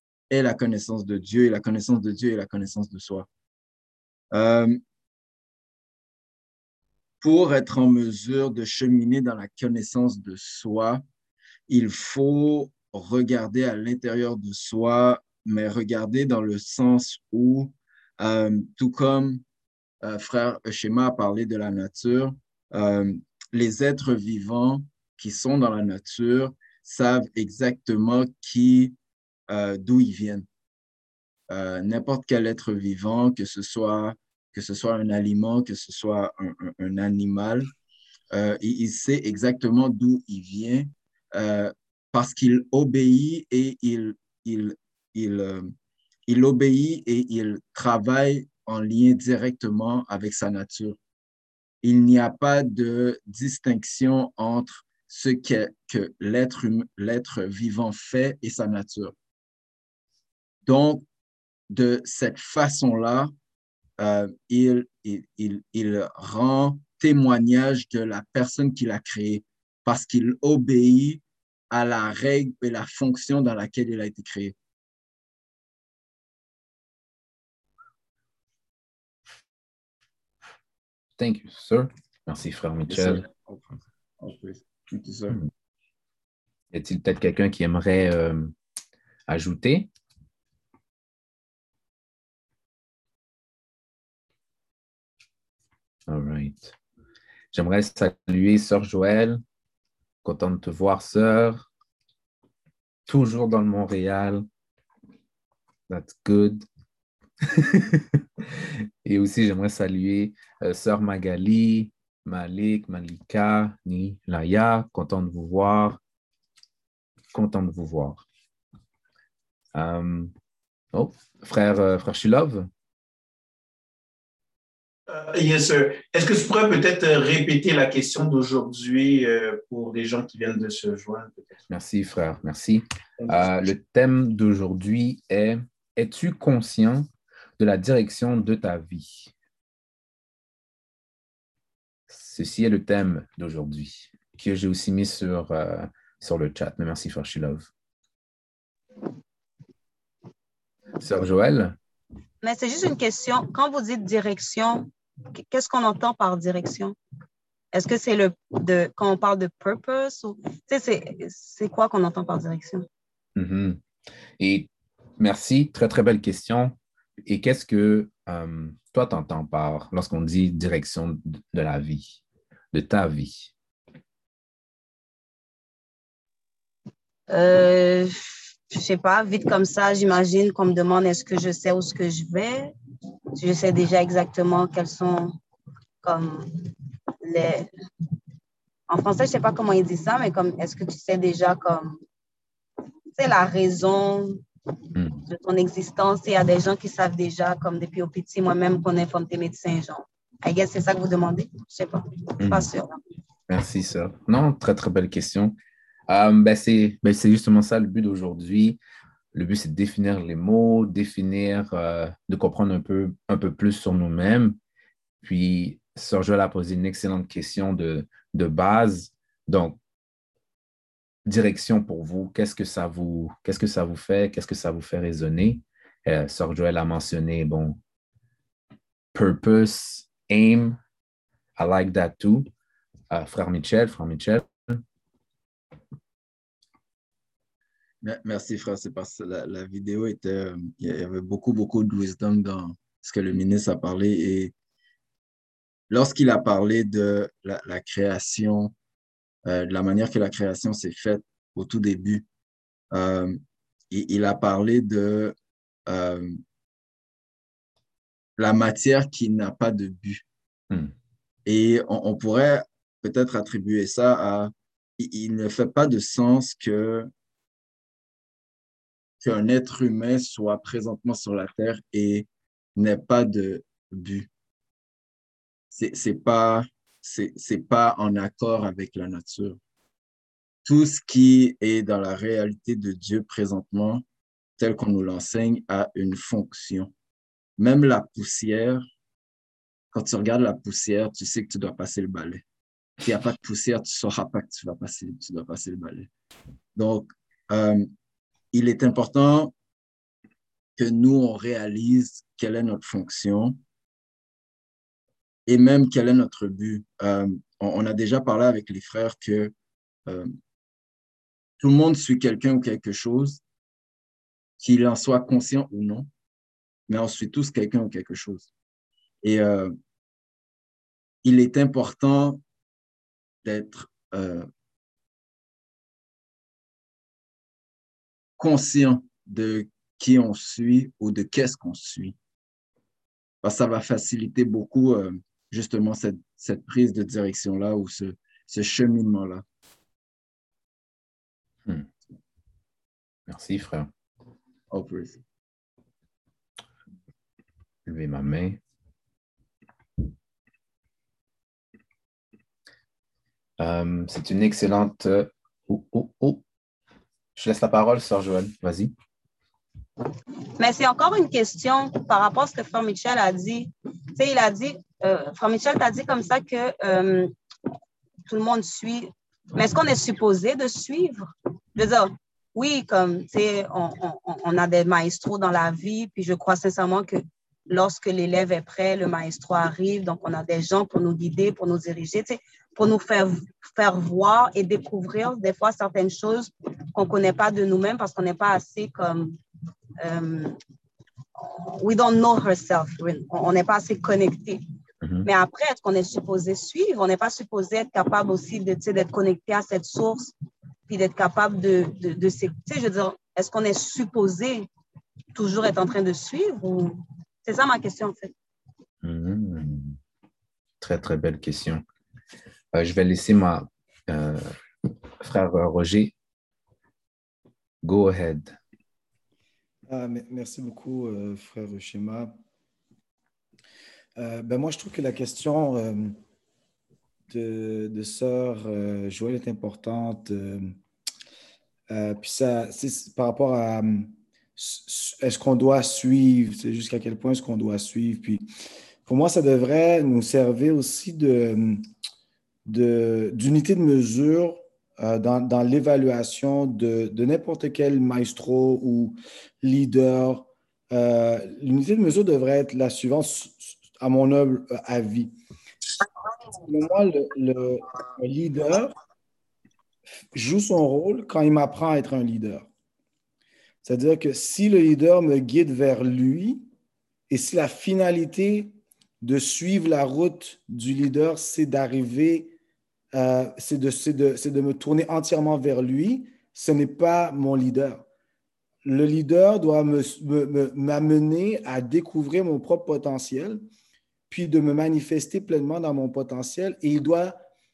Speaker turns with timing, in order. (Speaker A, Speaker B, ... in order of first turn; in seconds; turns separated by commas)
Speaker A: 0.3-3.3, Speaker A: 4.3-4.8, Speaker A: 7.2-11.0, Speaker A: 11.7-19.4, Speaker A: 20.0-28.9, Speaker A: 29.5-30.5, Speaker A: 31.5-37.7, Speaker A: 38.3-45.7, Speaker A: 46.3-51.0, Speaker A: 51.8-59.1, Speaker A: 60.6-61.0, Speaker A: 61.7-63.3, Speaker A: 64.0-74.5, Speaker B: 81.2-83.2, Speaker A: 82.9-85.4, Speaker B: 86.7-88.5, Speaker B: 89.3-89.9, Speaker B: 96.1-96.8, Speaker B: 97.5-99.4, Speaker B: 100.2-101.7, Speaker B: 103.1-104.5, Speaker B: 105.9-106.7, Speaker B: 107.4-116.0, Speaker B: 117.3-118.2, Speaker B: 119.7-120.3, Speaker B: 120.9-122.7, Speaker C: 125.1-131.5, Speaker B: 131.7-139.3, Speaker B: 142.1-147.7, Speaker B: 151.0-151.8, Speaker D: 152.4-157.0, Speaker D: 157.7-162.9, Speaker B: 163.4-163.8, Speaker B: 164.4-172.2, Speaker B: 172.7-173.5, Speaker D: 177.3-182.7, Speaker D: 183.4-185.3, Speaker D: 186.0-186.7, Speaker D: 187.2-187.7, Speaker D: 188.9-192.0, Speaker D: 193.2-194.4, Speaker B: 195.0-195.2, Speaker D: 195.3-203.0, Speaker B: 202.4-202.7, Speaker B: 203.5-205.6, Speaker B: 206.1-208.8, Speaker B: 209.3-214.6, Speaker B: 215.2-219.8, Speaker B: 221.3-227.8, Speaker B: 229.1-230.8, Speaker B: 231.6-232.5, Speaker B: 233.1-234.8, Speaker A: 238.0-244.5, Speaker A: 245.9-248.7, Speaker A: 249.5-252.2, Speaker A: 252.9-253.4, Speaker A: 253.9-255.3, Speaker A: 255.9-256.4, Speaker A: 258.4-260.2, Speaker A: 261.5-267.1, Speaker A: 269.2-274.3, Speaker A: 275.7-279.6, Speaker A: 280.6-284.0, Speaker A: 284.6-286.9, Speaker A: 287.6-288.9, Speaker A: 289.9-292.4, Speaker A: 293.0-296.1, Speaker A: 296.8-297.9, Speaker A: 298.5-299.5, Speaker A: 300.8-303.6, Speaker A: 305.5-309.5, Speaker A: 311.6-313.4, Speaker A: 314.6-316.1, Speaker A: 316.9-318.5, Speaker A: 319.2-319.7, Speaker A: 321.2-322.4, Speaker A: 323.4-324.5, Speaker A: 328.4-332.2, Speaker A: 333.4-339.4, Speaker B: 343.3-343.9, Speaker A: 344.7-345.2, Speaker B: 347.9-348.6, Speaker B: 353.6-356.4, Speaker B: 357.4-358.9, Speaker D: 360.6-367.3, Speaker D: 368.3-389.4, Speaker D: 390.0-390.6, Speaker D: 391.4-394.6, Speaker D: 395.2-400.3, Speaker D: 400.9-404.7, Speaker D: 405.4-408.3, Speaker B: 409.0-410.0, Speaker B: 410.8-411.8, Speaker B: 412.7-414.5, Speaker B: 415.2-416.1, Speaker B: 417.8-418.6, Speaker E: 419.9-422.4, Speaker E: 424.2-426.2, Speaker E: 427.3-430.8, Speaker E: 431.9-438.4, Speaker E: 439.1-441.8, Speaker E: 442.7-455.3, Speaker E: 456.5-458.9, Speaker E: 460.3-462.7, Speaker E: 463.8-466.7, Speaker E: 467.3-472.5, Speaker E: 473.1-478.1, Speaker E: 478.8-483.6, Speaker E: 484.3-487.4